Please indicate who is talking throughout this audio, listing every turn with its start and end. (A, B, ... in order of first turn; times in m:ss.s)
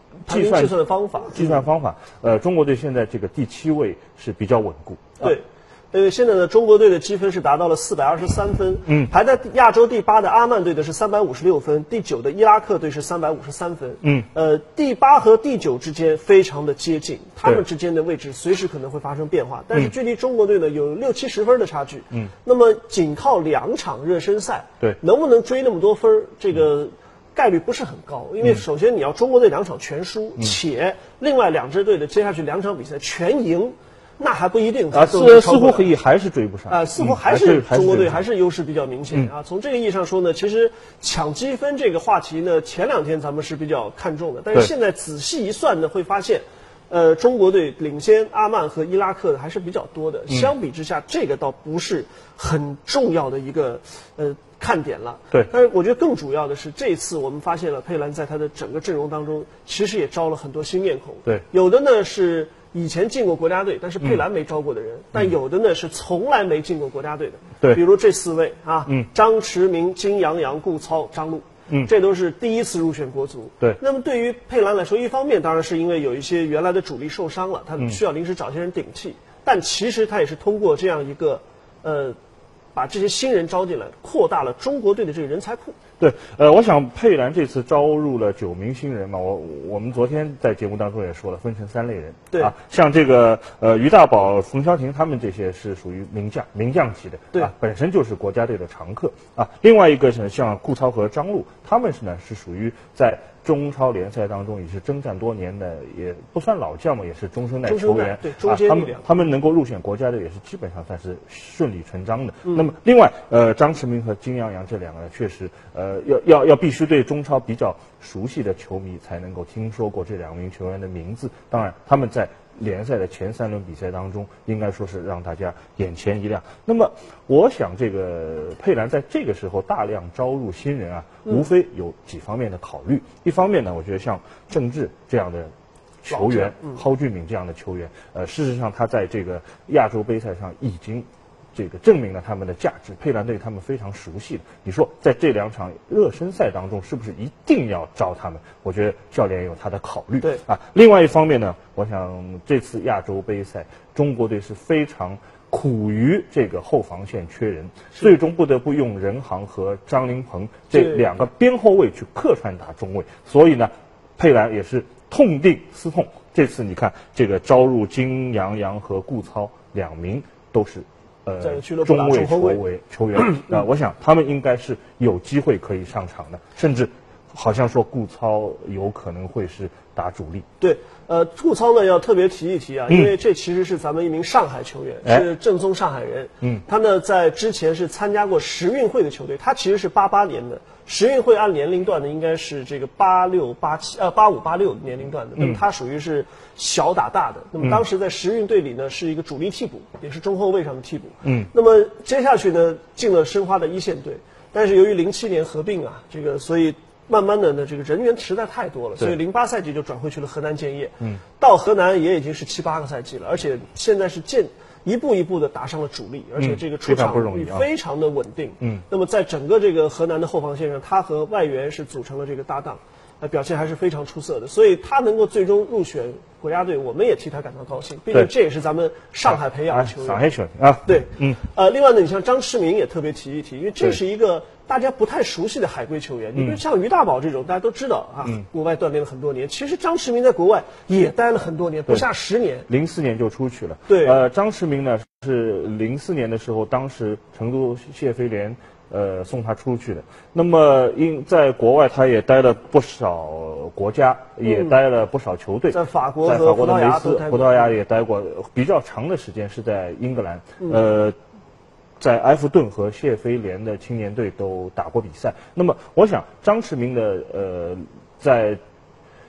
0:00.2-0:00.7 A
0:00.3-0:01.6 B
0:01.3-0:05.3 A
0:05.2-0:35.9 B
0:08.8-0:09.1 A
0:34.9-0:38.2 A
0:36.7-1:22.2 B
1:22.7-1:25.8 B
1:26.0-2:15.5 A
1:47.6-1:49.1 B
2:16.0-3:00.4 A
2:16.1-2:16.8 B
2:40.7-2:41.0 B
2:51.4-2:52.6 B
2:53.2-2:53.5 B
3:00.6-3:50.2 B
3:15.4-3:15.6 A
3:21.2-3:21.5 A
3:36.4-3:37.7 A
3:49.2-3:51.4 A
3:50.8-4:02.7 B
4:02.7-4:21.2 A
4:03.9-4:04.2 B
4:14.4-4:14.7 B
4:15.7-4:17.7 B
4:22.0-4:28.6 A